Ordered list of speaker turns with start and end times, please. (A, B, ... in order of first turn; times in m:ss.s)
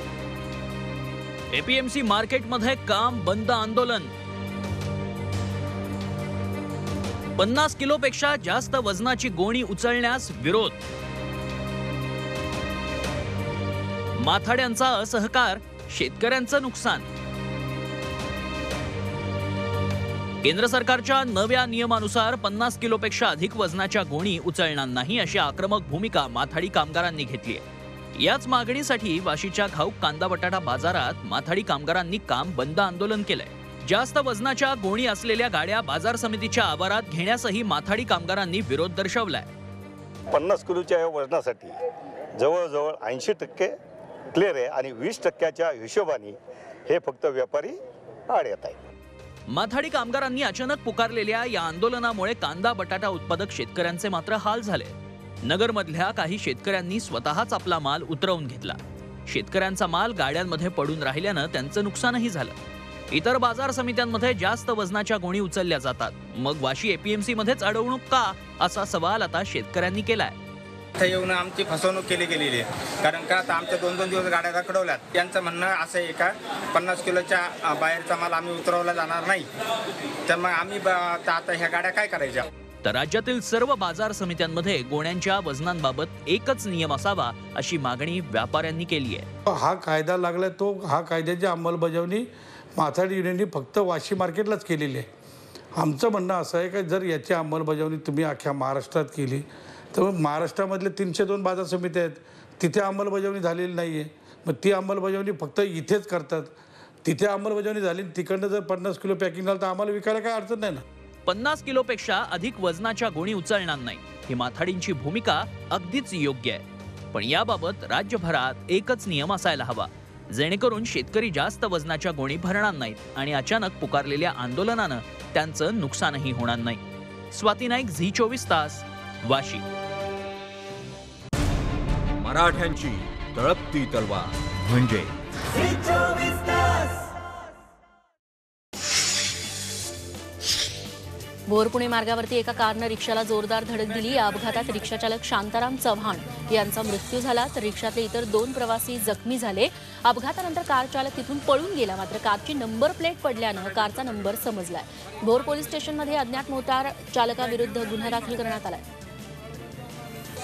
0:01.5-0:04.1 A
0:07.4-0:10.8 A
0:14.1-0:17.1 A
0:20.4-0:39.5 A
0:40.3-0:41.7 B
0:42.4-0:43.7 B
0:44.3-0:46.4 B
0:46.9-0:47.8 B
0:48.3-0:48.8 B
0:49.5-1:02.6 A
1:03.1-1:10.4 A
1:11.0-1:19.5 C
1:20.3-1:22.5 C
1:22.8-1:29.2 A
1:29.5-1:35.1 D
1:35.7-1:46.5 D
1:47.0-1:50.8 D
1:51.2-2:09.6 A
2:12.2-2:15.1 E
2:21.5-2:38.8 F